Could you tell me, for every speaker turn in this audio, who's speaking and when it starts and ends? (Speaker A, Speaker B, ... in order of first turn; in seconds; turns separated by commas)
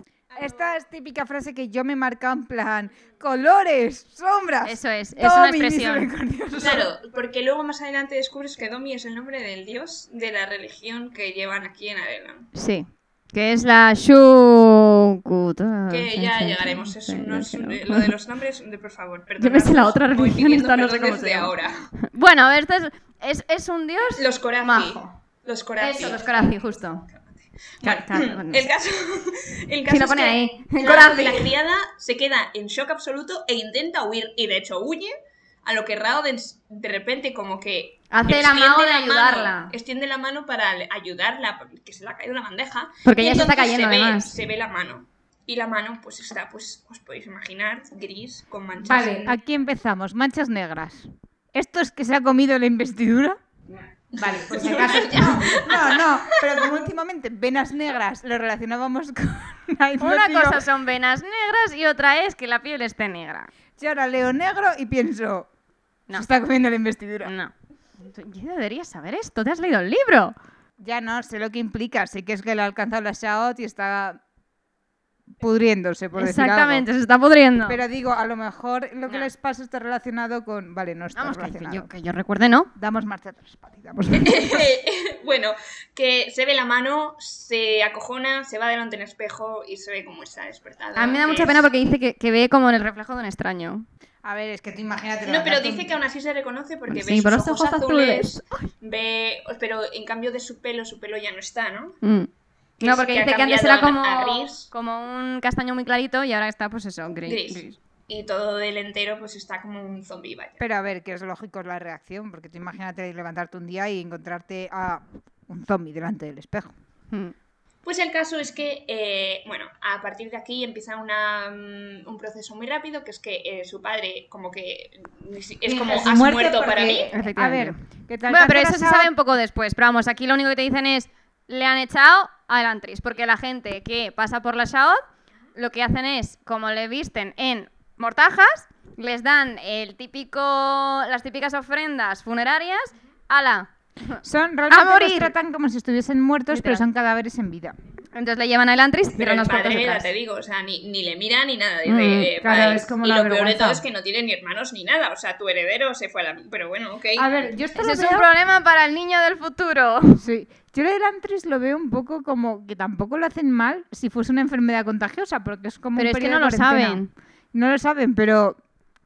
Speaker A: 0.3-0.8, Speaker B: 0.3-6.9, Speaker C: 4.6-6.1, Speaker A: 6.5-12.5, Speaker C: 12.5-18.1, Speaker A: 15.9-21.9, Speaker C: 19.4-21.5, Speaker C: 22.0-25.1, Speaker A: 24.2-26.5, Speaker C: 25.8-27.0, Speaker A: 27.1-35.1, Speaker C: 27.8-28.7, Speaker C: 29.9-31.5, Speaker A: 35.6-49.3, Speaker C: 38.1-39.7, Speaker C: 43.0-44.4, Speaker B: 48.8-53.4, Speaker A: 54.1-56.7, Speaker B: 54.1-60.7, Speaker C: 60.0-63.5, Speaker B: 63.8-65.5, Speaker B: 66.1-67.3, Speaker C: 67.2-70.3, Speaker B: 70.8-74.2, Speaker B: 75.4-76.9, Speaker C: 76.2-77.8, Speaker B: 77.7-81.9, Speaker C: 81.1-82.7, Speaker B: 82.7-84.7, Speaker A: 84.1-91.7, Speaker C: 91.0-93.8, Speaker B: 94.2-96.0, Speaker A: 95.2-102.0, Speaker C: 96.9-98.7, Speaker C: 102.0-102.3, Speaker A: 102.8-104.7, Speaker C: 102.8-107.8, Speaker A: 107.2-110.6, Speaker B: 110.6-116.7, Speaker A: 117.8-127.1, Speaker B: 125.6-129.1, Speaker C: 127.1-135.0, Speaker C: 135.5-145.3, Speaker B: 144.2-147.8, Speaker C: 146.5-146.8, Speaker C: 148.1-150.1, Speaker A: 149.2-157.3, Speaker C: 151.8-152.3, Speaker B: 152.4-153.8, Speaker B: 157.2-158.3, Speaker C: 157.8-160.2, Speaker B: 160.2-167.0, Speaker C: 165.9-167.1, Speaker B: 167.5-168.6